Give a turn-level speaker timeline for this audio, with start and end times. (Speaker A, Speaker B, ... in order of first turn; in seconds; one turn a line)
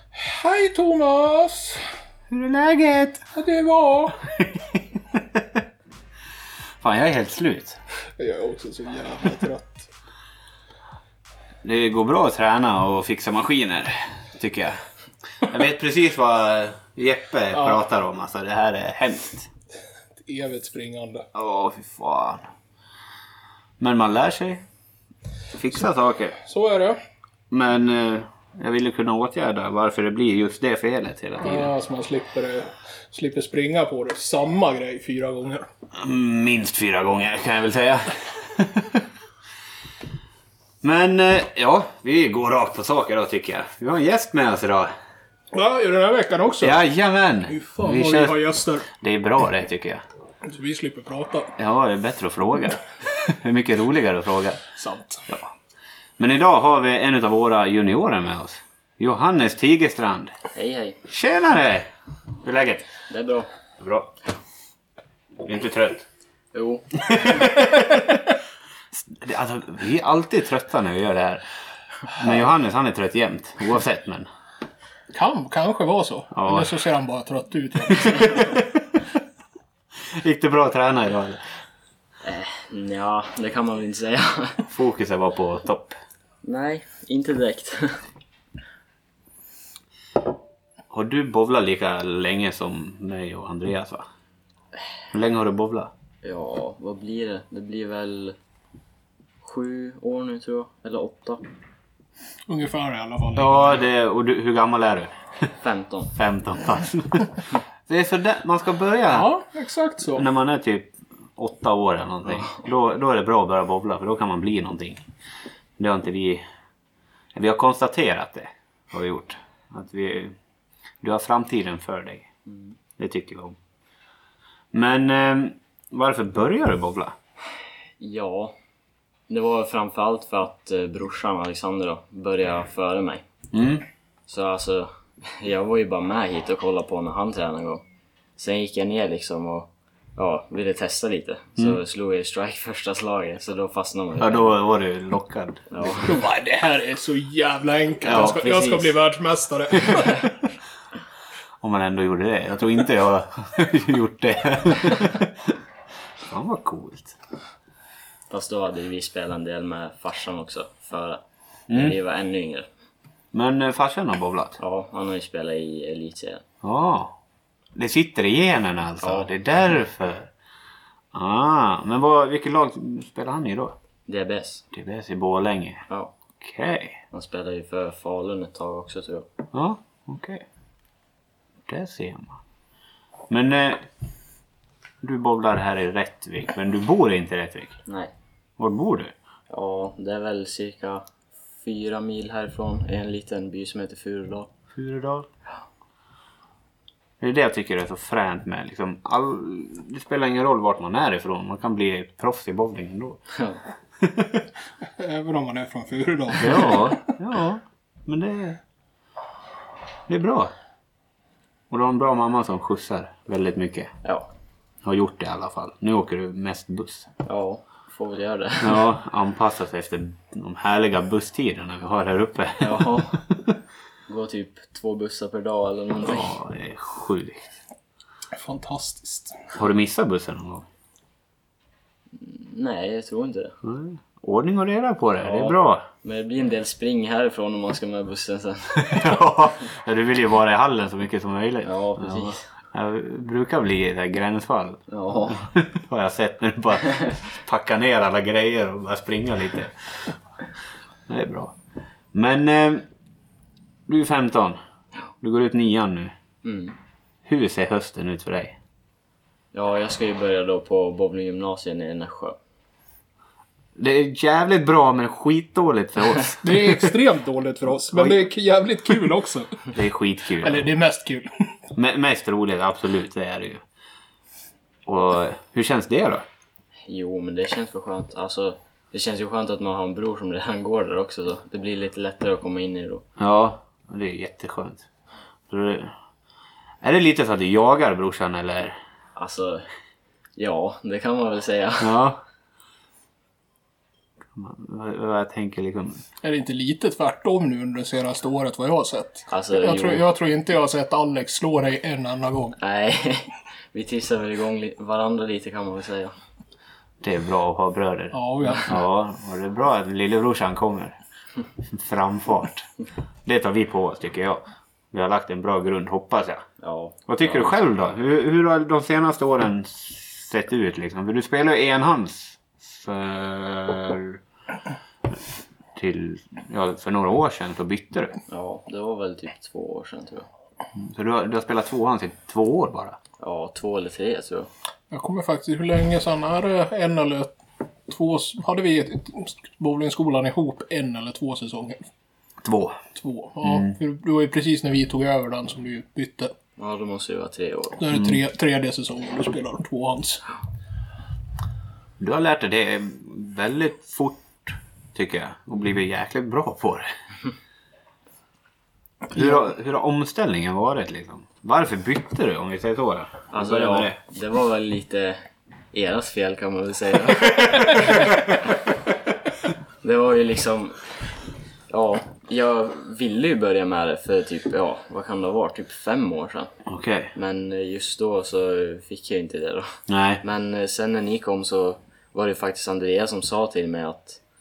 Speaker A: 0.1-1.9
Speaker B: 2.3-3.2
Speaker A: 3.3-4.2
Speaker B: 4.4-5.6
Speaker B: 6.8-7.8
Speaker A: 8.2-9.9
Speaker B: 11.6-14.8
Speaker B: 15.4-19.5
Speaker A: 17.5-17.8
Speaker A: 20.2-21.3
Speaker B: 21.3-22.5
Speaker B: 23.8-24.6
Speaker B: 25.5-26.4
Speaker A: 26.4-27.0
Speaker B: 27.5-31.7
Speaker A: 31.4-35.7
Speaker B: 35.9-39.0
Speaker B: 40.8-44.9
Speaker A: 45.5-46.8
Speaker B: 46.6-50.0
Speaker A: 47.5-48.9
Speaker A: 50.5-51.5
Speaker B: 51.6-54.6
Speaker A: 54.7-55.2
Speaker B: 56.2-60.3
Speaker C: 60.5-61.0
Speaker B: 61.0-61.9
Speaker B: 62.4-62.9
Speaker C: 63.1-63.5
Speaker B: 63.8-64.1
Speaker B: 65.4-66.0
Speaker C: 66.5-67.4
Speaker B: 67.1-68.2
Speaker B: 68.9-71.4
Speaker B: 72.0-74.3
Speaker A: 75.1-78.8
Speaker B: 76.3-76.8
Speaker B: 77.9-78.8
Speaker B: 80.0-81.4
Speaker C: 82.2-84.6
Speaker B: 84.7-86.0
Speaker C: 86.4-88.0
Speaker B: 90.9-94.1
Speaker B: 95.1-95.9
Speaker C: 96.2-98.4
Speaker C: 99.4-101.4
Speaker A: 102.5-103.8
Speaker B: 103.3-105.1
Speaker C: 105.6-106.1
Speaker B: 106.1-109.3
Speaker A: 109.1-110.2
Speaker B: 110.1-115.0
Speaker B: 115.8-116.4
Speaker B: 117.3-120.4
Speaker B: 121.0-122.3
Speaker C: 122.5-122.8
Speaker B: 123.0-123.6
Speaker B: 124.7-127.1
Speaker C: 128.0-128.6
Speaker C: 129.3-133.3
Speaker B: 133.5-133.8
Speaker C: 134.3-137.8
Speaker C: 138.4-144.5
Speaker B: 144.2-146.1
Speaker C: 145.7-146.2
Speaker A: 146.0-150.4
Speaker C: 148.0-148.9
Speaker B: 148.1-148.4
Speaker B: 151.6-155.5
Speaker B: 156.2-157.2
Speaker C: 158.3-162.7
Speaker B: 161.7-162.0
Speaker B: 163.3-164.6
Speaker C: 164.6-166.4
Speaker B: 166.6-167.1
Speaker B: 167.7-170.3
Speaker C: 169.0-169.3
Speaker B: 171.1-173.8
Speaker C: 174.1-174.7
Speaker B: 174.7-175.8
Speaker C: 175.9-176.1
Speaker B: 176.4-177.0
Speaker C: 177.1-179.3
Speaker B: 179.5-180.4
Speaker B: 181.7-182.4
Speaker B: 183.3-183.8
Speaker B: 185.0-187.8
Speaker C: 187.8-188.1
Speaker B: 188.6-189.1
Speaker C: 189.5-191.1
Speaker C: 191.6-194.5
Speaker B: 194.7-195.3
Speaker B: 197.2-203.2
Speaker C: 203.3-203.6
Speaker B: 204.0-204.3
Speaker A: 204.8-207.1
Speaker B: 206.3-208.6
Speaker B: 210.1-210.5
Speaker B: 211.7-213.9
Speaker C: 214.0-214.3
Speaker B: 214.8-217.1
Speaker C: 217.2-218.8
Speaker B: 218.6-223.5
Speaker C: 222.6-223.2
Speaker C: 224.1-226.4
Speaker B: 226.0-227.5
Speaker A: 228.3-229.5
Speaker B: 229.5-230.7
Speaker C: 232.1-233.6
Speaker B: 233.6-235.8
Speaker C: 235.2-239.1
Speaker B: 238.7-250.1
Speaker C: 241.6-242.4
Speaker C: 244.9-245.5
Speaker B: 251.1-251.6
Speaker B: 252.1-252.9
Speaker B: 253.9-254.6
Speaker B: 255.2-256.1
Speaker C: 256.4-256.7
Speaker B: 257.2-258.6
Speaker C: 259.5-262.4
Speaker B: 263.8-266.9
Speaker A: 266.4-269.7
Speaker B: 267.7-268.2
Speaker B: 269.7-270.7
Speaker A: 270.4-271.5
Speaker B: 271.7-273.6
Speaker B: 274.9-276.2
Speaker C: 276.9-283.1
Speaker B: 283.2-284.9
Speaker B: 285.5-285.9
Speaker B: 286.8-288.8
Speaker C: 289.1-289.7
Speaker C: 290.4-291.9
Speaker B: 291.8-292.2
Speaker B: 294.3-296.0
Speaker A: 296.2-302.6
Speaker C: 299.3-300.0
Speaker C: 302.6-306.1
Speaker B: 307.0-311.0
Speaker A: 308.1-308.7
Speaker B: 311.6-312.7
Speaker B: 313.2-316.4
Speaker C: 316.6-317.6
Speaker B: 317.1-324.2
Speaker B: 325.8-328.1
Speaker C: 328.3-330.3
Speaker B: 330.7-333.0
Speaker C: 333.2-334.5
Speaker A: 334.9-337.3
Speaker A: 337.9-341.9
Speaker B: 342.4-342.8
Speaker A: 342.9-346.3
Speaker B: 343.4-343.7
Speaker C: 346.6-347.8
Speaker A: 347.8-350.2
Speaker B: 347.9-348.2
Speaker B: 352.0-356.9
Speaker B: 359.1-364.0
Speaker C: 363.3-368.2
Speaker C: 369.8-371.0
Speaker C: 371.7-376.5
Speaker B: 376.6-377.1
Speaker C: 377.1-384.2
Speaker B: 379.9-380.2